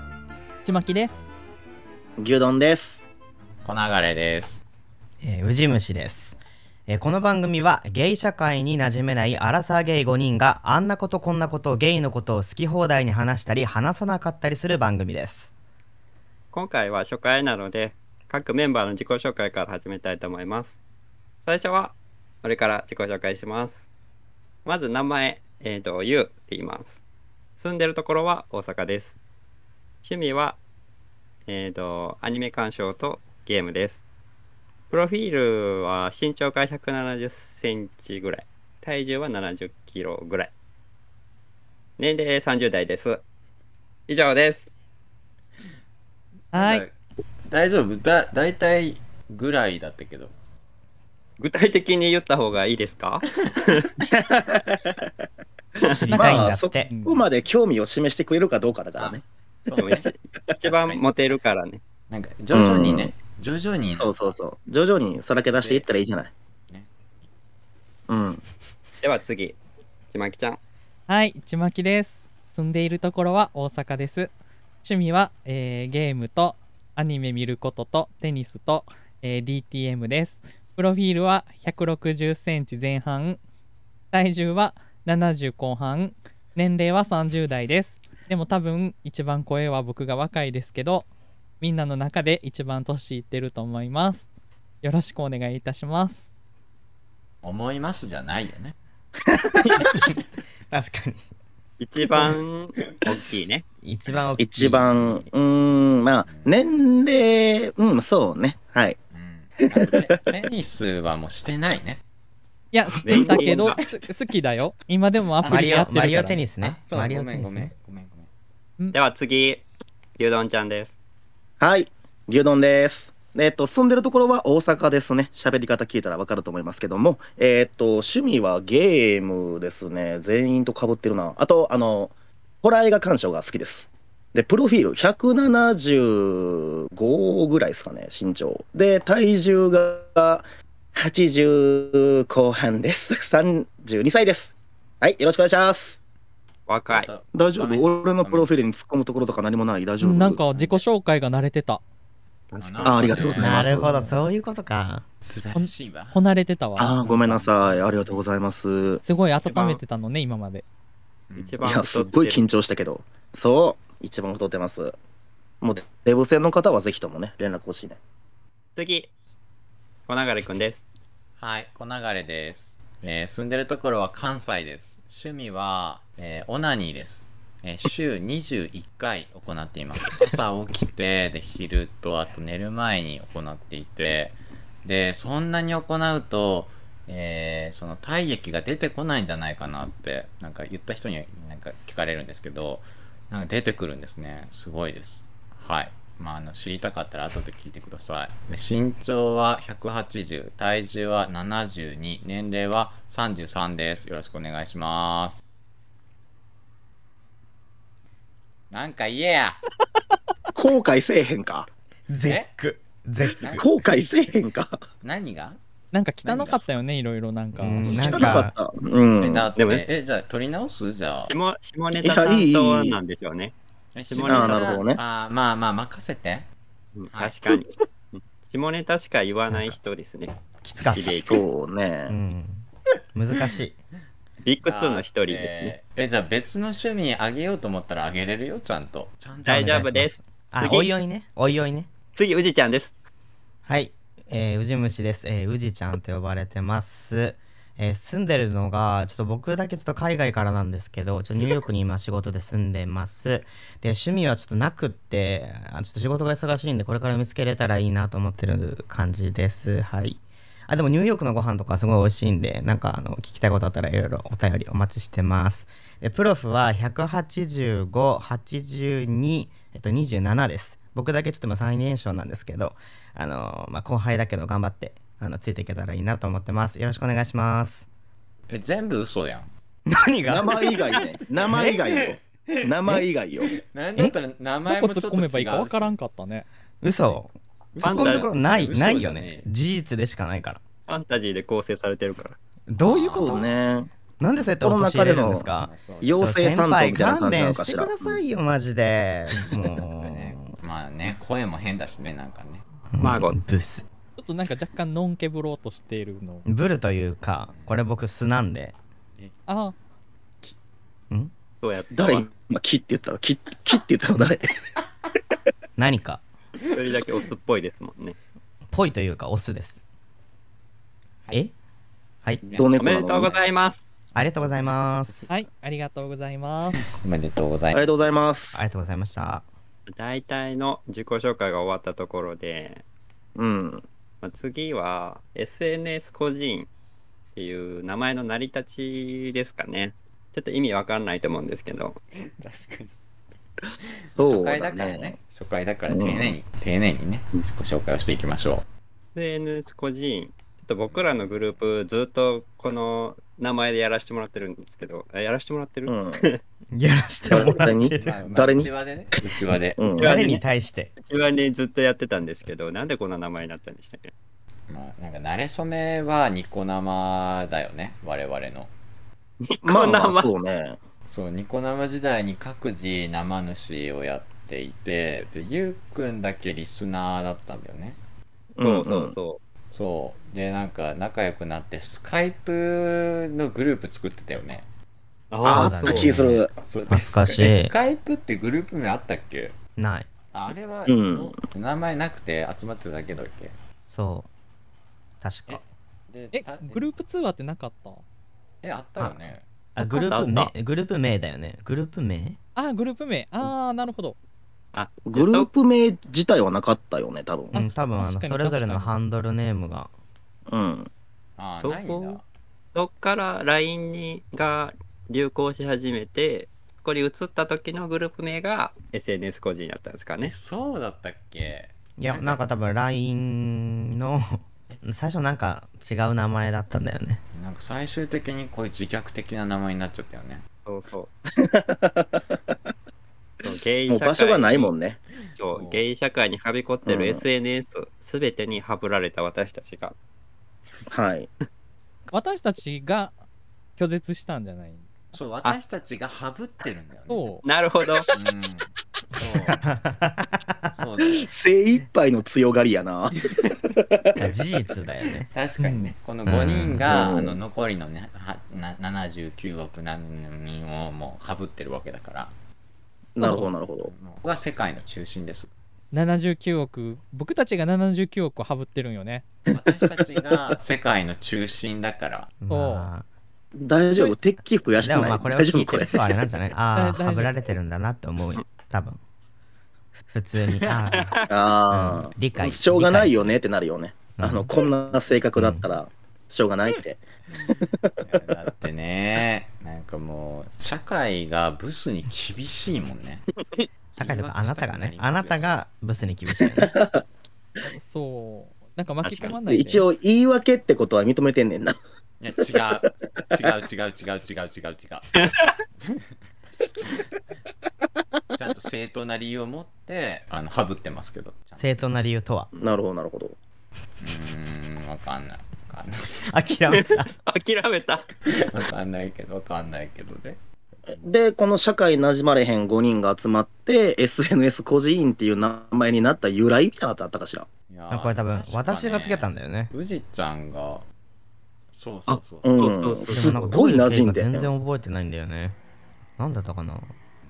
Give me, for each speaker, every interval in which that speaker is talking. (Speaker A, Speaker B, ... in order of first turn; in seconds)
Speaker A: 0.6-1.3, 46.5-46.9, 56.1-57.2, 71.1-74.3, 74.8-83.4, 84.1-91.1, 91.6-94.3, 94.8-96.3, 112.7-116.4, 150.0-151.8, 155.5-157.5, 159.0-160.7, 215.9-218.3, 284.6-286.5, 304.2-306.4, 309.5-309.8, 325.3-326.9, 396.3-398.0, 402.6-404.2, 407.5-409.0, 442.1-443.1, 443.8-444.9, 447.1-447.4, 455.6-455.9, 463.2-463.5, 465.9-469.2, 472.5-472.9, 476.7-477.3, 497.6-499.9
Speaker B: 2.2-3.0, 54.1-55.0, 56.1-59.2, 62.5-63.1, 63.9-66.3, 68.1-68.4, 104.4-109.0, 109.6-110.2, 121.6-140.4, 140.9-146.0, 147.3-150.4, 152.8-153.9, 156.8-159.0, 161.6-164.9, 165.6-168.0, 210.5-211.7, 213.5-214.8, 217.8-219.6, 222.0-223.0, 224.2-225.0, 231.2-232.2, 280.3-283.5, 293.1-293.9, 294.6-298.2, 311.9-314.5, 322.5-323.3, 327.7-328.6, 333.4-333.8, 344.2-345.2, 345.9-346.4, 355.9-356.2, 357.3-360.2, 369.6-370.8, 378.6-379.2, 385.4-386.5, 390.9-391.4, 405.1-407.6, 410.5-410.9, 431.4-432.5, 433.9-435.0, 436.9-437.2, 440.9-441.3, 451.0-454.2, 456.8-457.4, 463.1-463.9, 469.6-470.4, 473.6-476.0, 481.3-488.2, 496.6-497.0, 499.5-501.7, 512.6-513.3, 520.9-527.5, 532.4-534.5
Speaker C: 3.6-4.6, 46.5-50.3, 59.0-61.6, 62.1-64.2, 65.6-65.9, 97.4-98.8, 106.2-106.5, 109.1-112.0, 113.1-113.9, 115.4-115.9, 116.6-118.3, 146.9-148.6, 150.5-150.8, 152.6-153.8, 155.2-156.2, 157.2-158.2, 161.3-161.6, 171.4-205.4, 208.7-209.6, 212.2-212.5, 215.0-215.6, 216.2-216.6, 217.8-218.2, 219.2-221.3, 223.9-226.5, 227.1-227.3, 233.3-233.6, 234.6-240.0, 278.5-279.5, 280.6-285.9, 286.9-287.2, 287.8-289.5, 292.8-293.5, 295.5-296.2, 299.3-302.6, 307.5-307.8, 309.1-309.5, 322.5-323.5, 324.2-324.7, 326.7-328.1, 342.1-342.9, 343.8-348.7, 350.9-351.7, 358.0-359.9, 364.7-368.7, 371.1-378.0, 379.7-384.7, 386.5-389.6, 390.3-393.6, 395.5-396.9, 398.6-399.4, 411.4-412.2, 420.2-422.4, 427.3-430.4, 435.1-435.8, 445.1-447.4, 448.1-449.6, 450.7-451.3, 453.2-453.6, 455.2-462.3, 463.8-465.5, 469.5-472.3, 487.3-493.2, 493.9-495.6, 502.2-505.1, 505.8-506.1, 508.3-511.8, 514.0-516.3, 518.2-521.1, 527.7-530.9, 531.8-532.6
Speaker D: 5.2-15.5, 55.9-56.9, 100.7-101.2, 103.8-105.2, 115.4-117.7, 153.4-155.0, 212.1-213.7, 217.6-218.5, 229.5-229.8, 230.6-231.4, 232.1-233.7, 239.4-241.9, 243.7-277.9, 279.9-280.7, 286.8-290.6, 292.7-293.4, 294.2-300.5, 302.9-303.9, 306.4-308.8, 315.8-316.2, 318.7-319.8, 324.1-325.3, 328.5-329.4, 356.7-358.2, 359.9-360.9, 385.4-387.7, 389.8-390.1, 393.9-394.3, 395.2-395.6, 399.7-402.4, 407.5-409.9, 422.0-427.2, 449.5-450.7, 454.2-455.3, 456.2-456.8, 472.4-473.1, 474.8-479.0, 480.1-483.4, 484.2-484.5, 485.4-485.6, 494.0-496.7, 511.6-512.5, 516.3-517.1, 527.9-529.7, 533.1-535.5, 536.2-536.9
Speaker E: 16.5-20.8, 21.4-23.8, 24.6-27.0, 27.6-29.1, 30.0-30.6, 31.5-34.0, 34.9-40.5, 42.0-43.2, 44.1-44.7, 51.4-53.9, 59.8-61.8, 69.0-69.5, 70.1-70.6, 101.8-103.6, 113.0-113.8, 118.9-119.6, 120.2-121.0, 146.7-147.1, 152.5-153.5, 159.4-159.8, 161.4-162.4, 168.8-169.1, 170.1-170.8, 219.6-219.8, 221.2-223.5, 224.1-224.8, 226.9-230.3, 230.9-231.4, 234.4-235.8, 239.4-240.9, 242.1-242.9, 287.8-288.3, 290.9-292.4, 303.0-303.4, 311.6-312.3, 316.7-318.1, 322.8-323.8, 329.9-332.8, 334.2-336.7, 337.4-342.0, 349.1-356.4, 359.9-360.4, 361.0-364.1, 369.4-370.3, 378.6-379.4, 385.3-386.1, 399.8-400.5, 404.7-405.5, 411.6-412.2, 412.7-420.3, 430.6-431.1, 433.4-434.7, 435.4-439.9, 447.4-448.1, 499.0-499.4, 505.2-505.5, 512.5-512.8, 516.7-518.1, 532.1-533.5